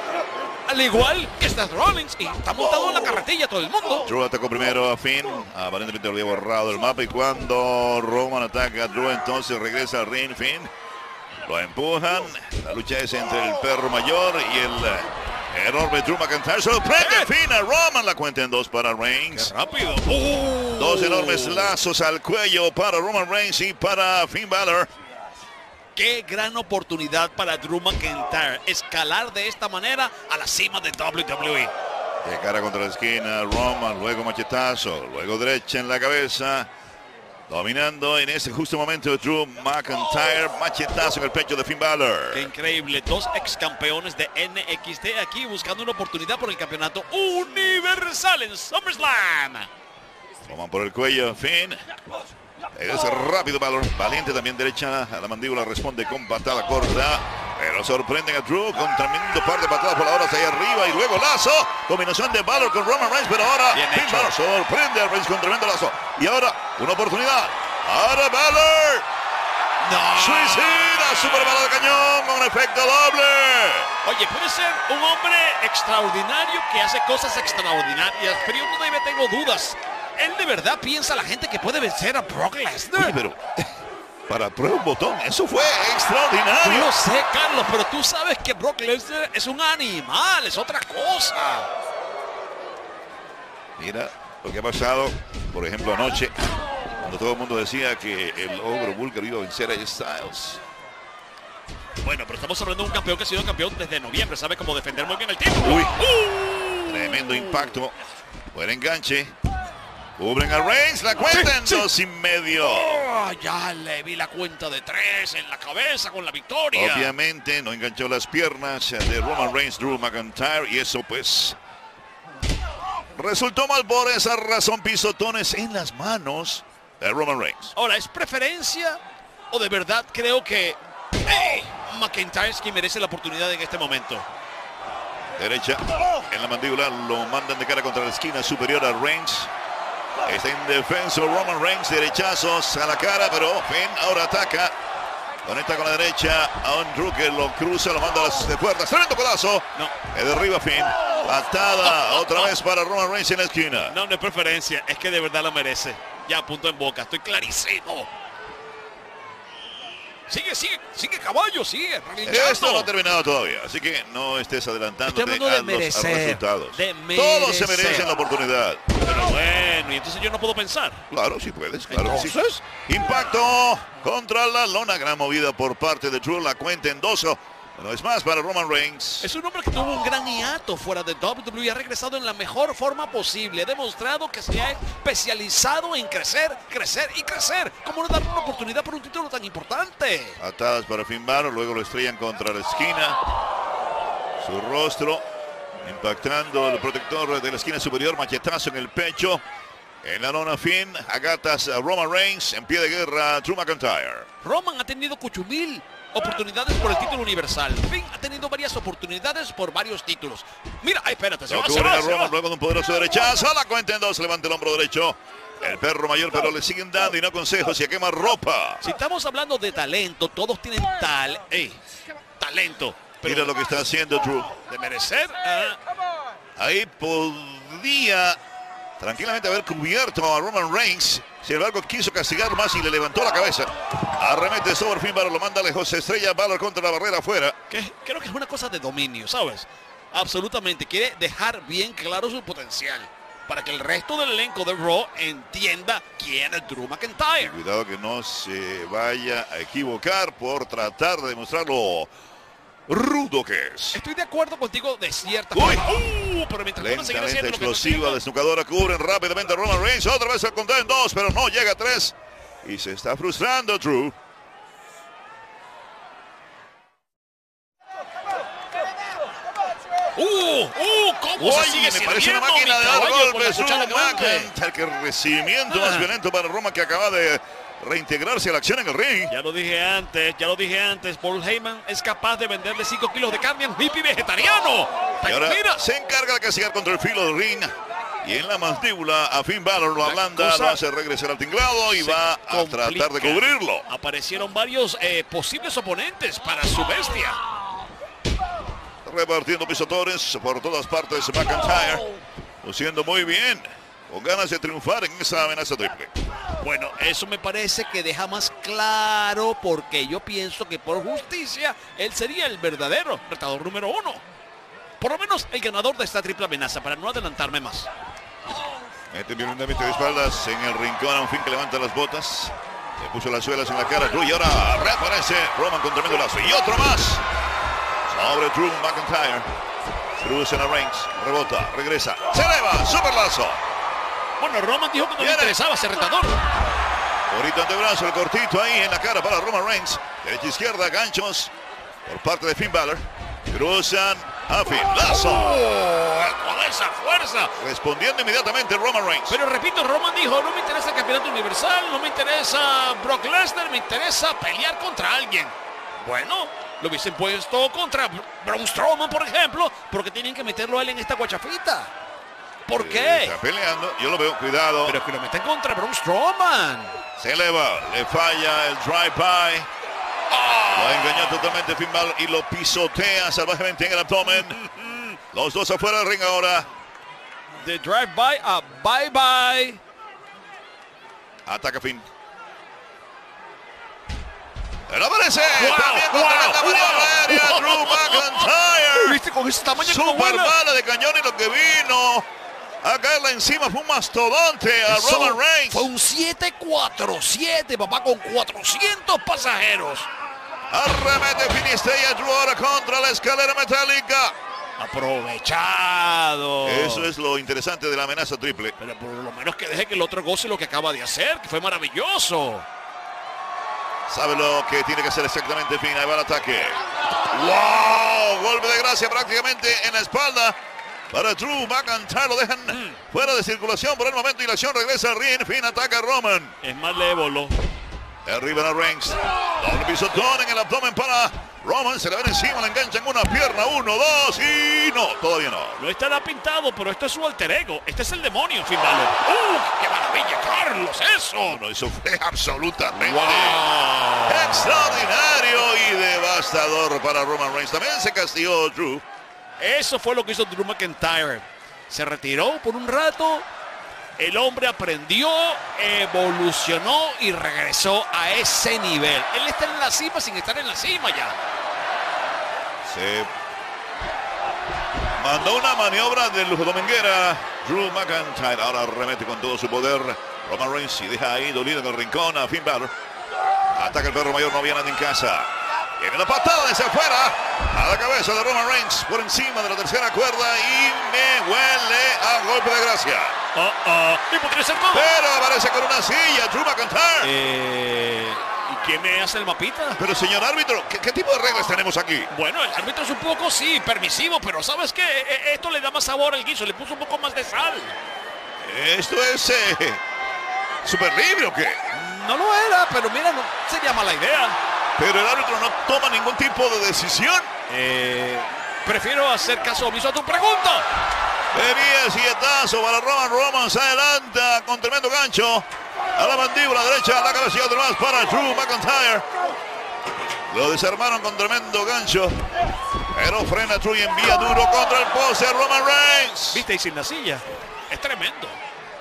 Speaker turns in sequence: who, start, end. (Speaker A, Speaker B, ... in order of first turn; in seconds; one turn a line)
Speaker A: 0.7-4.1
Speaker B: 4.0-10.7
Speaker B: 11.4-19.5
Speaker A: 17.0-17.3
Speaker A: 19.3-21.8
Speaker B: 20.7-24.9
Speaker A: 25.9-31.7
Speaker B: 32.2-36.7
Speaker B: 37.5-42.5
Speaker A: 42.3-49.7
Speaker B: 50.4-51.8
Speaker B: 52.7-69.0
Speaker A: 63.7-64.3
Speaker A: 69.8-70.9
Speaker B: 70.2-73.9
Speaker A: 74.0-83.1
Speaker B: 82.9-83.4
Speaker B: 84.3-86.9
Speaker A: 86.6-91.7
Speaker B: 93.8-96.3
Speaker B: 97.0-100.6
Speaker A: 102.0-107.7
Speaker B: 105.6-106.0
Speaker B: 106.8-107.9
Speaker B: 108.5-109.3
Speaker B: 110.2-112.9
Speaker A: 111.3-111.9
Speaker A: 112.6-117.1
Speaker B: 116.7-121.6
Speaker B: 123.1-127.7
Speaker A: 127.7-129.0
Speaker A: 129.5-134.2
Speaker B: 135.3-139.5
Speaker B: 140.2-144.7
Speaker B: 145.4-153.9
Speaker A: 149.7-150.0
Speaker A: 151.9-152.5
Speaker A: 153.9-158.1
Speaker A: 160.3-162.9
Speaker B: 162.2-168.8
Speaker A: 165.1-168.1
Speaker A: 169.0-171.0
Speaker B: 171.1-179.3
Speaker A: 171.9-172.5
Speaker A: 179.2-190.4
Speaker B: 190.4-193.2
Speaker B: 194.4-195.2
Speaker B: 195.8-199.4
Speaker B: 200.0-204.3
Speaker A: 204.4-212.3
Speaker B: 211.5-218.8
Speaker A: 218.8-221.8
Speaker A: 222.4-223.5
Speaker B: 223.2-224.6
Speaker A: 224.6-225.8
Speaker B: 226.6-228.4
Speaker B: 229.0-237.6
Speaker A: 237.7-247.5
Speaker B: 247.4-252.1
Speaker B: 252.9-254.0
Speaker A: 253.9-258.2
Speaker B: 255.5-255.9
Speaker B: 256.8-264.1
Speaker A: 270.1-274.5
Speaker B: 271.4-279.3
Speaker A: 275.7-276.1
Speaker A: 279.3-285.8
Speaker B: 285.2-293.8
Speaker A: 290.0-290.8
Speaker A: 291.9-297.4
Speaker B: 299.0-302.0
Speaker B: 302.6-306.1
Speaker A: 306.6-314.2
Speaker A: 315.0-317.9
Speaker B: 319.1-327.2
Speaker B: 328.1-329.4
Speaker B: 330.2-333.6
Speaker A: 334.4-336.4
Speaker B: 335.2-335.6
Speaker B: 337.3-341.5
Speaker B: 342.0-345.6
Speaker A: 345.1-347.5
Speaker B: 347.6-349.4
Speaker A: 349.3-361.9
Speaker A: 362.6-363.3
Speaker B: 362.7-365.0
Speaker A: 364.8-367.0
Speaker B: 367.2-369.7
Speaker A: 370.3-371.6
Speaker B: 370.7-374.6
Speaker A: 374.4-375.2
Speaker B: 375.3-376.7
Speaker A: 377.6-379.8
Speaker B: 381.4-382.0
Speaker B: 384.9-389.2
Speaker A: 385.6-390.6
Speaker B: 389.8-392.2
Speaker B: 392.8-395.9
Speaker A: 394.9-400.1
Speaker B: 400.7-404.3
Speaker A: 404.8-407.1
Speaker B: 406.6-408.8
Speaker A: 408.8-412.6
Speaker B: 414.1-420.6
Speaker B: 421.1-426.6
Speaker A: 422.7-423.0
Speaker A: 426.6-427.6
Speaker B: 428.2-435.8
Speaker A: 435.8-441.6
Speaker B: 441.4-443.6
Speaker A: 442.9-445.0
Speaker B: 444.3-449.0
Speaker A: 449.6-453.4
Speaker A: 454.2-461.3
Speaker B: 462.8-463.3
Speaker B: 465.2-472.9
Speaker B: 473.7-483.4
Speaker A: 483.5-485.1
Speaker B: 484.9-487.3
Speaker A: 487.2-490.0
Speaker B: 490.0-492.3
Speaker A: 492.3-498.0
Speaker B: 498.6-500.0
Speaker B: 500.8-501.8
Speaker A: 501.9-504.6
Speaker B: 505.0-507.5
Speaker A: 507.7-510.9
Speaker B: 511.5-519.3
Speaker B: 520.5-522.5
Speaker B: 523.1-526.6
Speaker A: 526.5-528.6